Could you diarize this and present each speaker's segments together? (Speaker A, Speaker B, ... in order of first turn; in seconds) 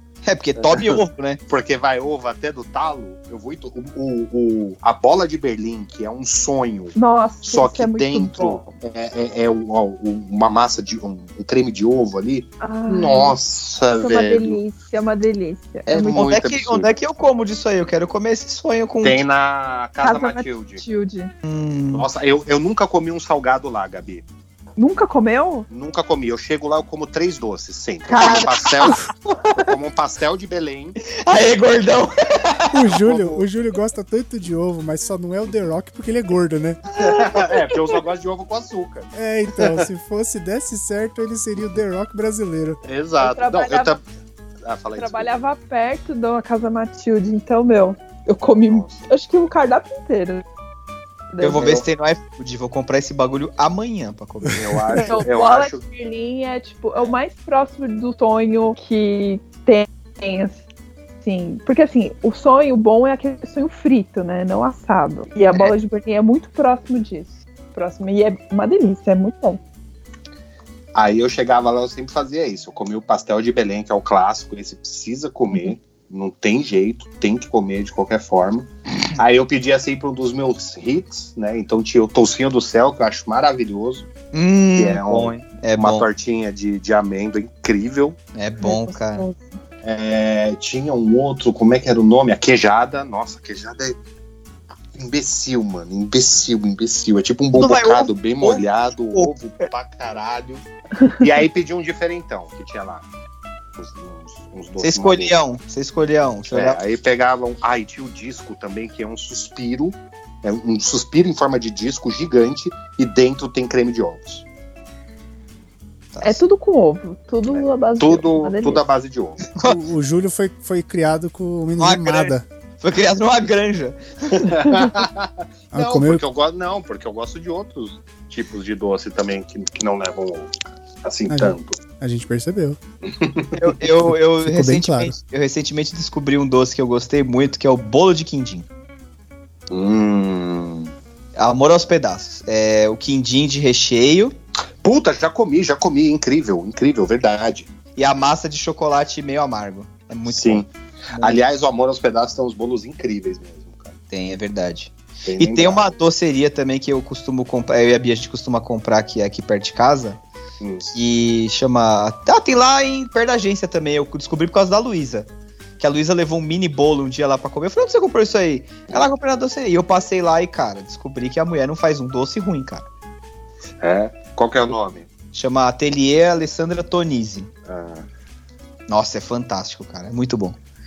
Speaker A: 0.2-1.4, 16.0-19.2, 21.4-22.1, 28.2-28.5, 31.0-32.9, 51.4-55.0, 84.3-86.1, 88.3-89.2, 97.5-99.6, 104.8-106.8, 116.1-116.4, 121.8-124.5, 133.6-138.7, 141.3-144.3, 148.0-151.4, 154.1-160.2, 160.9-172.8, 175.3-177.5, 178.9-180.6
Speaker B: 0.6-14.6, 15.9-16.9, 19.0-20.8, 21.9-24.2, 25.7-30.9, 33.0-33.4, 37.0-39.8, 42.8-44.0, 44.6-45.3, 48.6-49.1, 54.6-55.8, 70.9-84.1, 84.8-88.2, 89.8-94.0, 95.0-103.0, 103.8-105.4, 106.5-114.4, 117.5-119.6, 124.4-131.8, 133.1-133.7, 139.7-140.9, 144.8-147.7, 150.3-153.9, 155.2-155.9, 160.6-160.9, 173.8-175.1, 177.7-178.1
Speaker C: 6.9-8.6, 12.6-13.4, 14.0-16.4, 20.0-21.3, 24.8-25.7, 28.1-29.6, 43.2-43.9, 45.0-50.4, 51.3-51.8, 55.0-60.6, 61.2-69.6, 88.6-89.5, 116.2-118.8
Speaker D: 32.7-36.8, 39.1-42.8, 119.6-122.4, 125.7-126.2, 131.3-132.8, 134.1-135.1